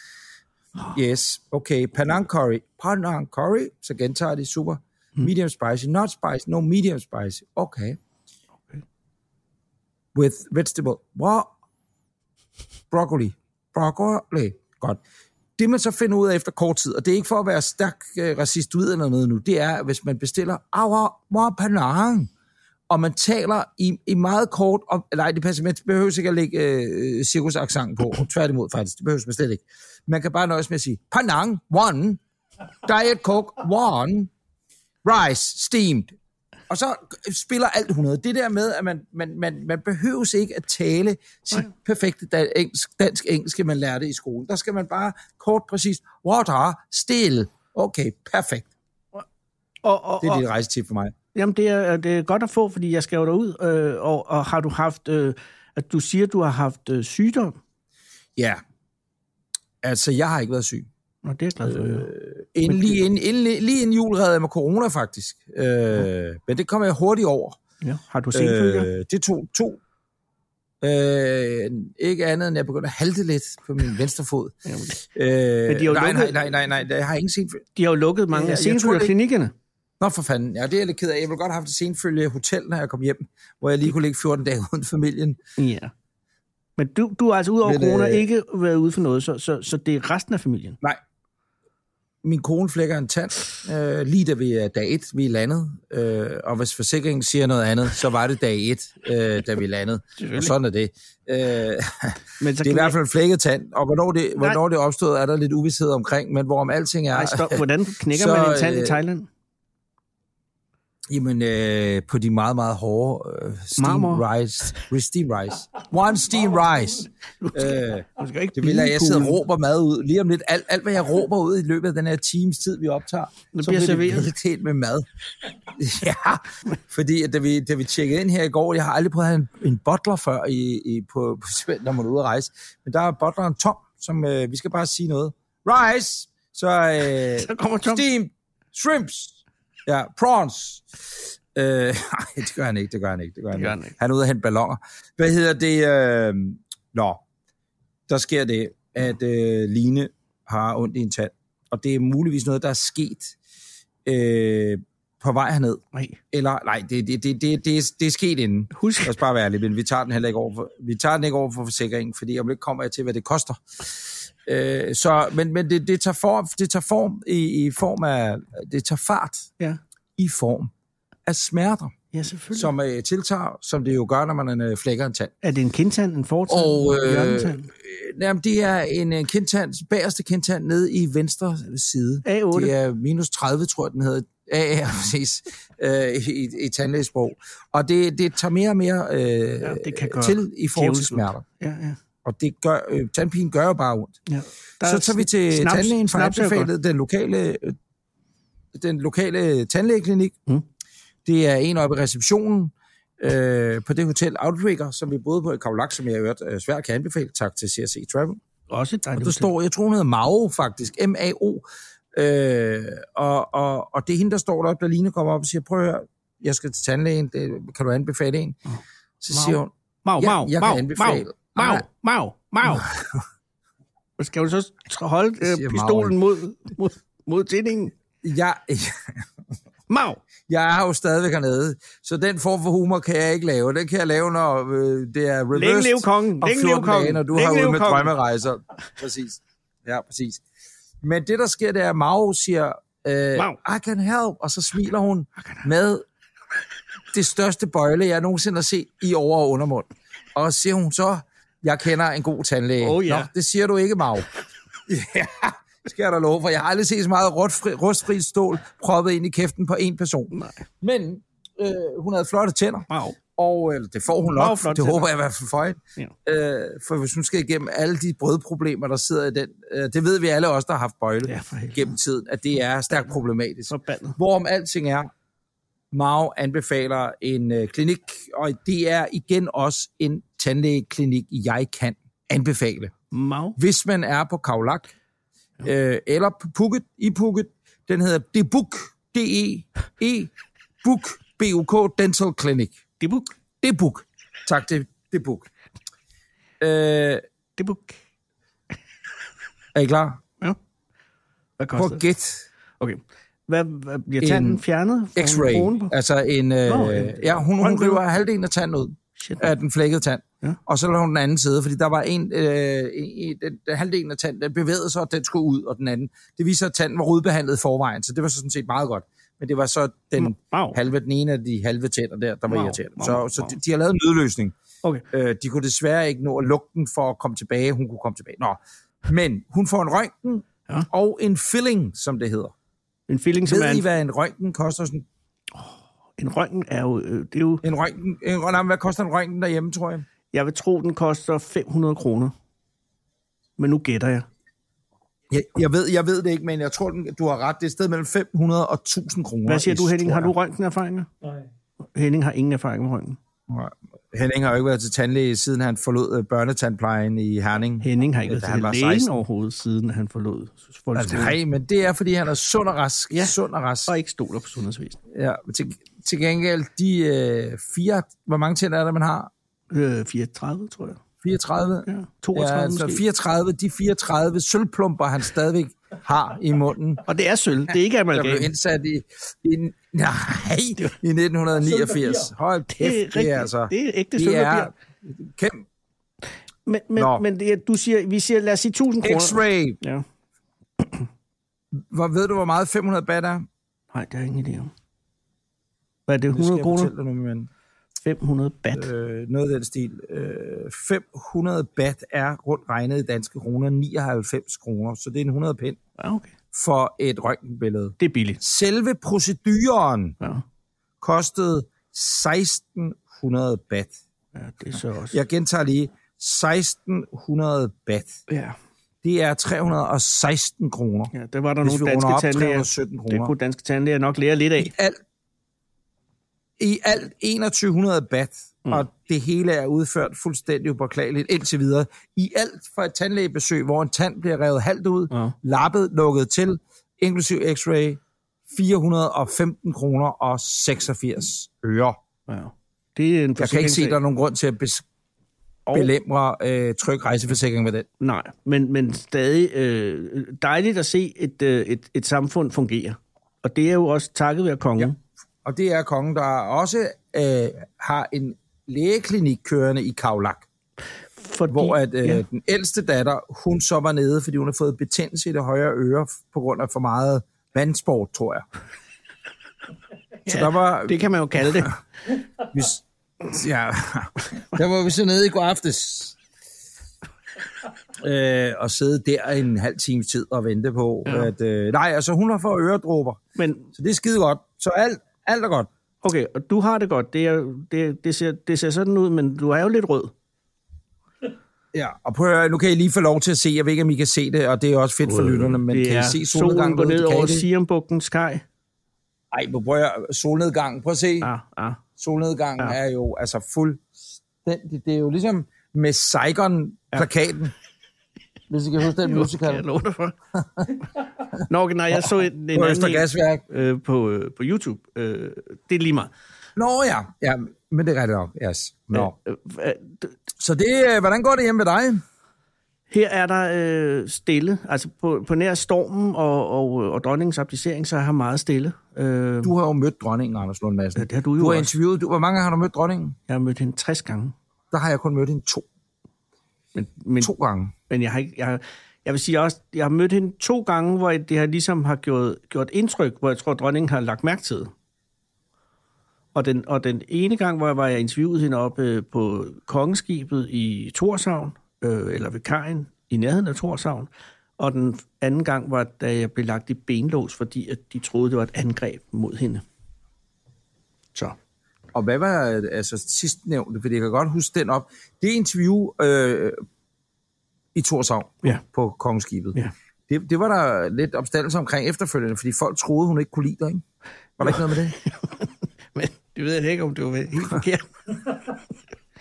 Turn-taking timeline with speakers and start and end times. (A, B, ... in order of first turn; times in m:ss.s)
0:00.9-0:08.0 A
0:10.1-0:11.5 A
0:12.9-0:15.0 A
0:15.6-0:22.3 A
0:22.9-0:32.2 A
0:32.8-0:34.3 A
0:35.0-0:36.2 A
0:36.7-0:48.7 A
0:49.8-0:50.4 B
0:50.2-0:51.1 A
0:51.3-0:57.6 B
0:58.4-0:58.6 A
0:59.8-1:00.9 A
1:01.2-1:02.1 B
1:01.6-1:07.6 A
1:02.7-1:03.0 B
1:07.8-1:08.9 B
1:08.3-1:09.8 A
1:10.8-1:17.7 A
1:14.6-1:15.0 B
1:15.7-1:16.4 B
1:17.8-1:19.5 B
1:18.3-1:19.1 A
1:20.0-1:25.4 A
1:25.6-1:25.9 B
1:26.8-1:30.8 B
1:27.6-1:28.2 A
1:32.2-1:49.0 A
1:40.2-1:40.5 B
1:42.4-1:43.0 B
1:47.1-1:49.3 B
1:51.1-2:05.0 A
1:53.8-1:54.2 B
1:57.4-1:59.4 B
2:03.5-2:04.3 B
2:05.7-2:27.2 A
2:17.1-2:18.0 B
2:23.5-2:23.9 B
2:28.1-2:33.4 A
2:34.0-2:49.5 A
2:38.7-2:39.1 B
2:50.2-2:50.7 A
2:51.2-2:51.9 A
2:52.1-2:52.7 B
2:52.5-2:55.3 A
2:55.4-2:57.7 B
2:56.5-3:11.4 A
3:02.2-3:02.7 B
3:09.6-3:12.0 B
3:12.2-3:14.1 A
3:14.3-3:16.7 B
3:14.8-3:17.8 A
3:18.7-3:20.4 A
3:21.2-3:28.4 A
3:28.7-3:29.5 B
3:29.2-3:38.6 A
3:39.2-3:41.8 A
3:39.3-3:42.8 B
3:42.6-3:43.2 A
3:44.2-3:47.9 B
3:45.4-3:46.2 A
3:48.2-3:49.3 A
3:49.9-3:50.2 B
3:50.5-4:00.4 A
3:55.5-3:58.1 B
4:01.0-4:06.0 A
4:07.1-4:14.3 A
4:12.8-4:13.3 B
4:14.8-4:35.1 A
4:20.3-4:20.6 B
4:22.9-4:23.2 B
4:24.3-4:25.1 B
4:31.2-4:31.9 B
4:33.7-4:34.2 B
4:35.9-4:42.9 A
4:43.1-4:43.6 B
4:43.6-4:44.9 A
4:45.6-4:50.3 A
4:50.8-4:52.8 A
4:53.0-4:53.3 B
4:53.6-4:55.5 A
4:56.6-4:57.2 A
4:57.6-4:58.0 B
4:59.7-5:00.2 A
5:01.6-5:02.0 B
5:01.8-5:02.5 A
5:02.8-5:05.9 B
5:04.2-5:04.6 A
5:05.2-5:24.6 A
5:06.6-5:08.0 B
5:09.2-5:09.5 B
5:20.2-5:20.8 B
5:22.5-5:23.5 B
5:25.1-5:32.5 A
5:33.1-5:33.8 B
5:33.5-5:35.0 A
5:35.5-5:37.6 B
5:37.6-5:40.0 A
5:40.3-5:42.3 B
5:43.6-5:44.2 B
5:45.3-5:50.3 A
5:49.5-5:51.1 B
5:51.9-5:53.2 B
5:53.5-5:59.1 A
5:57.8-6:01.4 B
6:00.9-6:03.9 A
6:03.1-6:03.4 B
6:03.9-6:05.0 B
6:05.1-6:09.3 A
6:09.7-6:11.0 B
6:11.2-6:17.0 A
6:11.9-6:13.0 B
6:17.1-6:18.5 B
6:18.1-6:25.6 A
6:22.7-6:24.7 B
6:26.6-6:30.0 B
6:27.0-6:27.2 A
6:29.0-6:29.8 A
6:30.8-6:31.1 B
6:31.7-6:33.5 A
6:33.9-6:34.7 B
6:36.1-6:36.9 B
6:36.3-6:37.5 A
6:38.0-6:38.9 B
6:38.7-6:45.8 A
6:46.0-6:46.3 B
6:46.5-6:50.2 A
6:48.0-6:48.4 B
6:51.0-6:54.0 A
6:54.4-6:55.2 B
6:55.1-6:58.2 A
6:58.3-6:58.6 B
6:59.0-7:03.3 A
7:01.1-7:04.7 B
7:04.6-7:05.0 A
7:06.6-7:22.0 A
7:22.3-7:24.0 B
7:23.4-7:24.8 A
7:25.7-7:27.9 A
7:28.0-7:35.0 B
7:35.4-7:40.5 A
7:41.2-7:42.2 B
7:41.5-7:48.5 A
7:50.2-7:51.7 A
7:50.3-7:51.8 B
7:52.4-7:56.2 A
7:57.9-8:03.2 A
8:01.1-8:01.3 B
8:03.4-8:03.7 B
8:03.7-8:05.7 A
8:06.0-8:10.1 B
8:11.7-8:17.5 A
8:15.0-8:18.4 B
8:19.3-8:21.3 A
8:21.2-8:21.8 B
8:22.0-8:23.8 A
8:24.4-8:27.5 A
8:28.5-8:29.6 A
8:29.0-8:30.2 B
8:30.3-8:30.7 A
8:31.5-8:36.1 B
8:31.9-8:33.4 A
8:36.6-8:39.1 A
8:38.9-8:40.2 B
8:40.4-8:42.0 A
8:42.9-8:49.5 B
8:49.4-8:53.2 A
8:51.0-8:51.7 B
8:53.3-8:54.4 B
8:54.7-8:55.6 A
8:56.7-8:57.3 B
8:57.2-8:57.7 A
8:57.9-9:04.7 B
9:06.4-9:19.6 B
9:21.9-9:26.6 A
9:27.7-9:29.6 A
9:30.1-9:33.8 A
9:34.4-9:35.0 A
9:34.4-9:38.5 B